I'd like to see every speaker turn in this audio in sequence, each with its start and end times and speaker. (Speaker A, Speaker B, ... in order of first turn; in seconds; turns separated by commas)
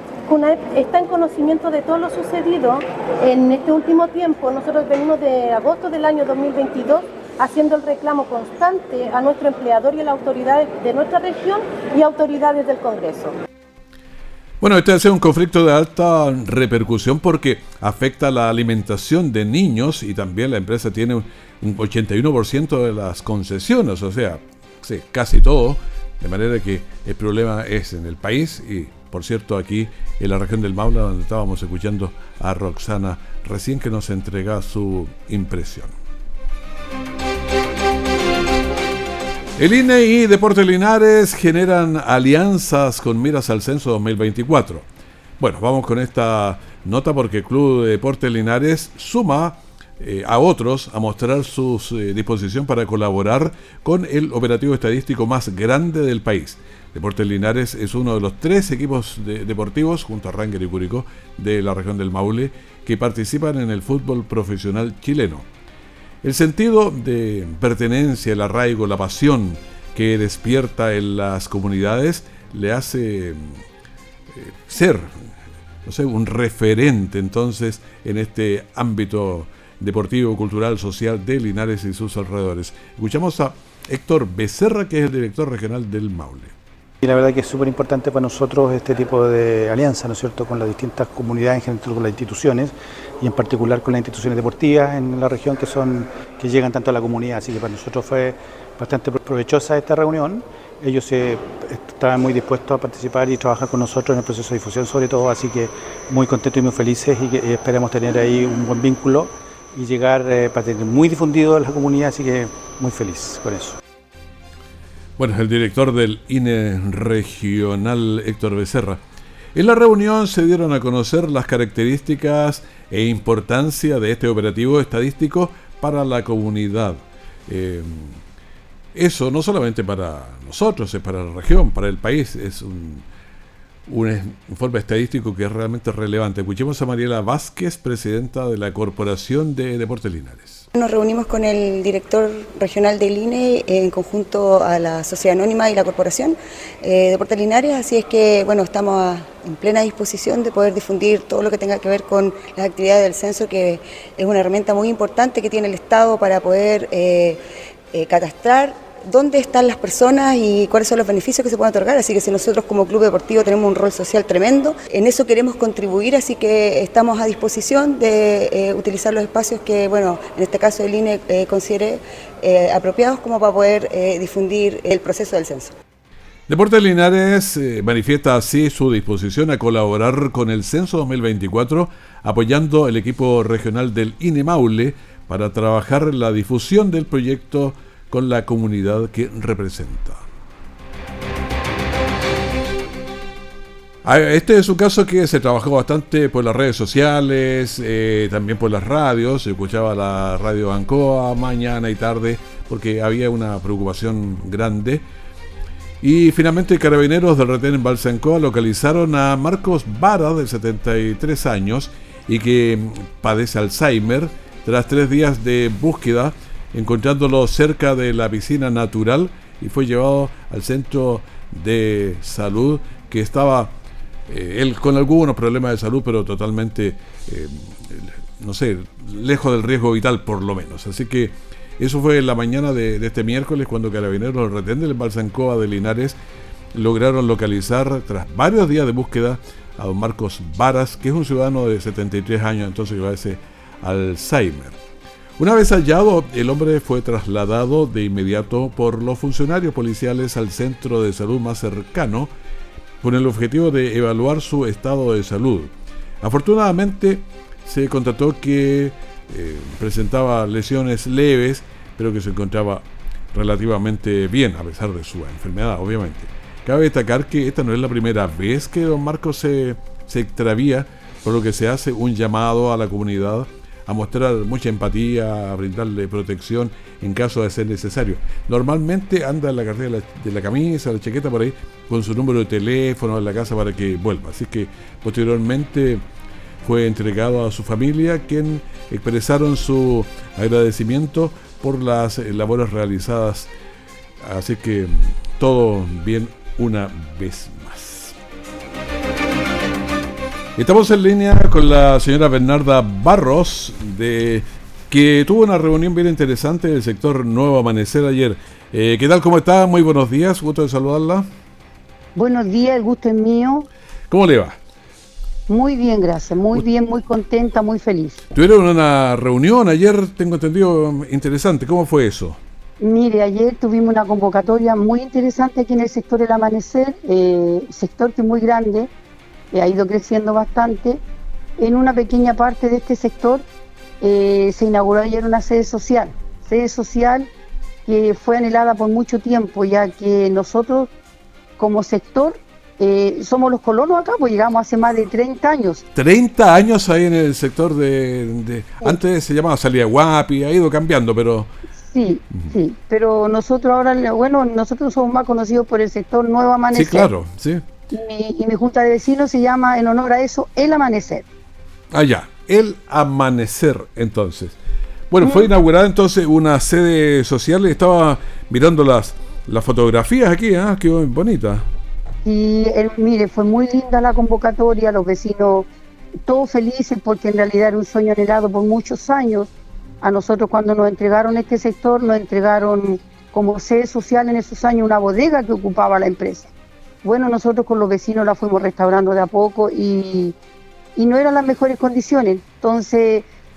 Speaker A: 0.3-13.4, Speaker B: 14.6-35.9, Speaker B: 39.6-44.9, Speaker B: 45.4-65.5, Speaker B: 66.2-73.6, Speaker B: 74.3-75.3, Speaker B: 75.8-86.5, Speaker C: 87.0-113.8, Speaker B: 115.2-119.0, Speaker B: 119.5-128.2, Speaker B: 128.9-133.1, Speaker B: 133.9-140.7, Speaker D: 140.8-157.4, Speaker D: 157.9-175.7, Speaker B: 176.5-190.2, Speaker B: 194.0-205.0, Speaker B: 206.0-223.8, Speaker B: 224.3-236.2, Speaker B: 236.7-244.8, Speaker B: 245.4-252.3, Speaker B: 253.0-286.0, Speaker B: 286.6-293.5, Speaker B: 294.2-298.1, Speaker B: 300.6-311.3, Speaker E: 312.1-313.7, Speaker B: 314.1-314.6, Speaker E: 315.5-318.2, Speaker B: 318.3-322.4, Speaker E: 322.8-328.9, Speaker E: 329.5-331.0, Speaker E: 331.6-333.4, Speaker E: 334.0-337.3, Speaker E: 337.9-340.9, Speaker E: 341.6-345.8, Speaker B: 345.9-351.5, Speaker E: 351.8-357.1, Speaker B: 356.7-357.6, Speaker E: 357.9-361.2, Speaker B: 361.9-364.6, Speaker B: 365.1-371.6, Speaker E: 365.2-365.5, Speaker E: 372.2-375.7, Speaker E: 376.2-379.5, Speaker E: 380.0-386.5, Speaker E: 387.0-390.4, Speaker E: 391.0-393.3